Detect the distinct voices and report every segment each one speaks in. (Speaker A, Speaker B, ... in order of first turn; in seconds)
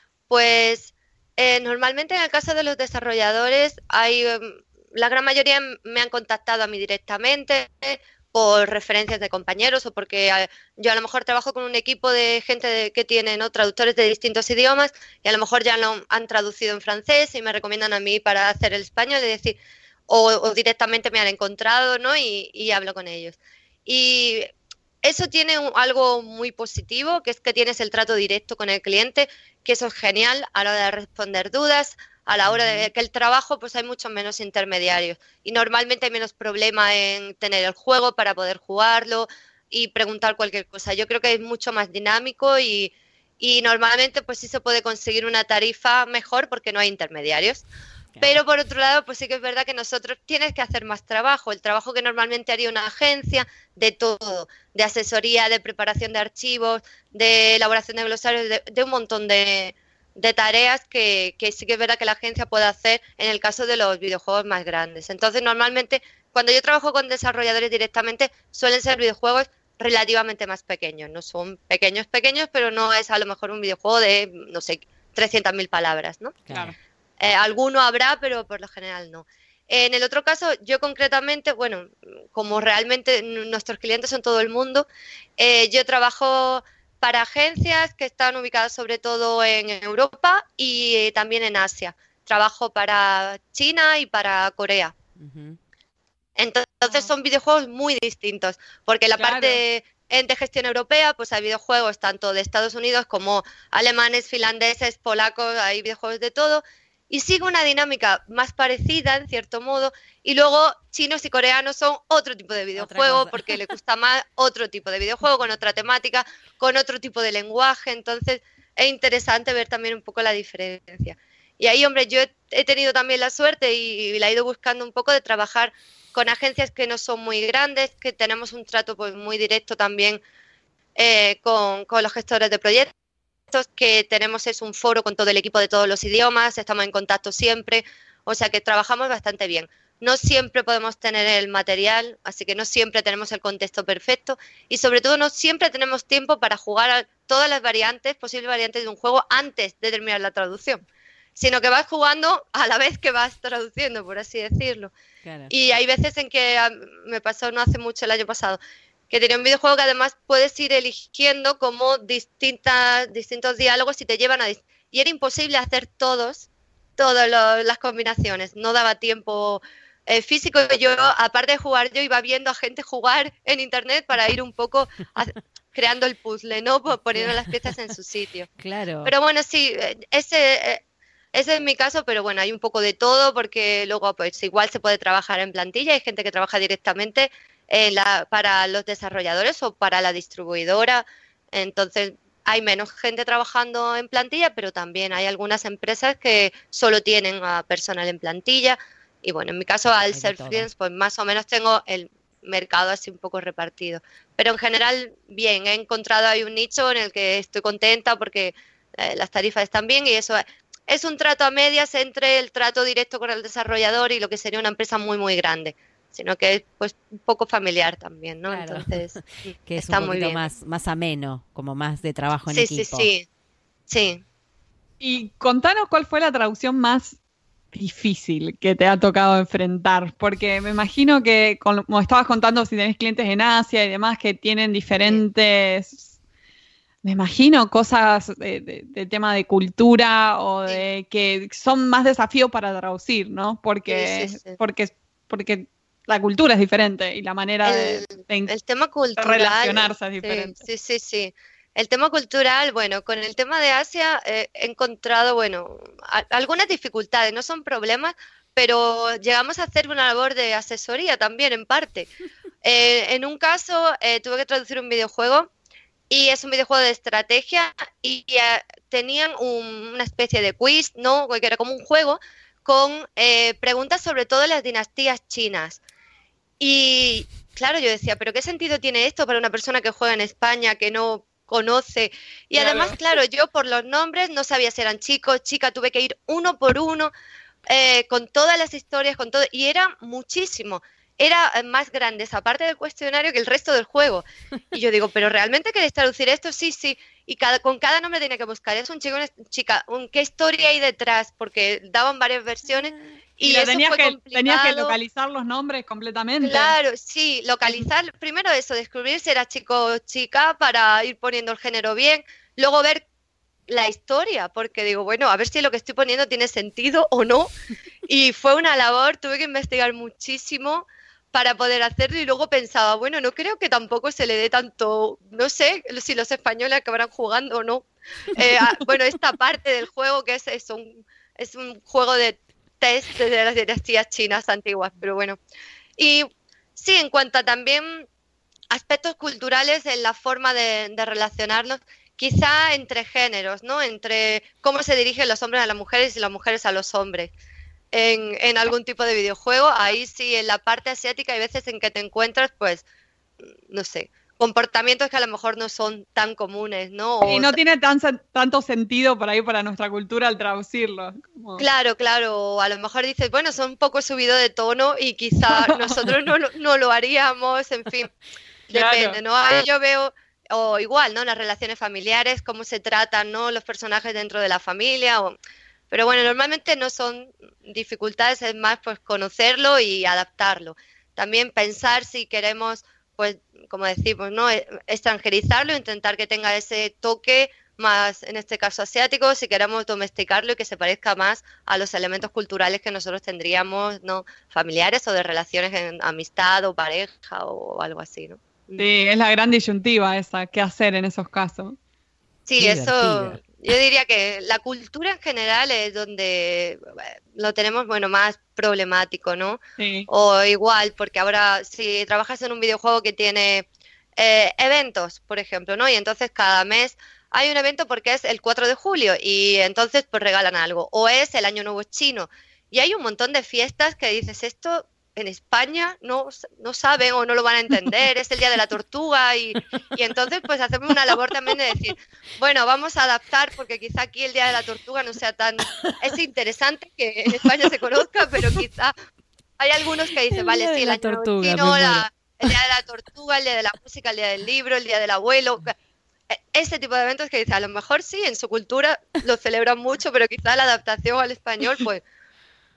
Speaker A: 0.3-24.5, 25.0-47.6, 48.2-76.4, 77.2-84.8, 85.4-94.9, 96.4-130.2, 130.9-132.9, 133.5-150.8, 151.3-154.9, 155.5-158.6, 159.1-178.5, 179.0-180.8, 181.3-219.2, 219.8-220.4, 222.5-223.2, 223.9-224.2, 243.9-244.6, 247.7-262.1, 262.6-265.5, 266.1-275.8, 276.6-287.1, 287.7-305.0, 306.4-313.0, 313.7-317.5, 318.1-335.4, 336.0-338.0, 338.7-347.3, 347.9-352.8, 353.7-357.6, 361.6-368.1, 368.7-375.3, 375.9-398.9, 402.5-413.6, 414.2-438.9, 439.6-445.7, 446.3-452.0
Speaker B: 32.4-32.9, 76.5-76.7, 95.2-95.6, 112.8-113.5, 155.2-155.5, 177.1-177.5, 178.6-179.1, 200.1-200.7, 218.5-223.1, 402.6-403.4, 440.3-442.5
Speaker C: 76.5-76.7, 99.2-99.6, 225.0-227.2, 227.7-236.1, 237.0-248.5, 249.2-250.5, 282.5-283.0, 303.4-306.7, 357.2-361.6, 365.5-366.1, 368.7-369.2, 398.8-401.8, 409.8-410.1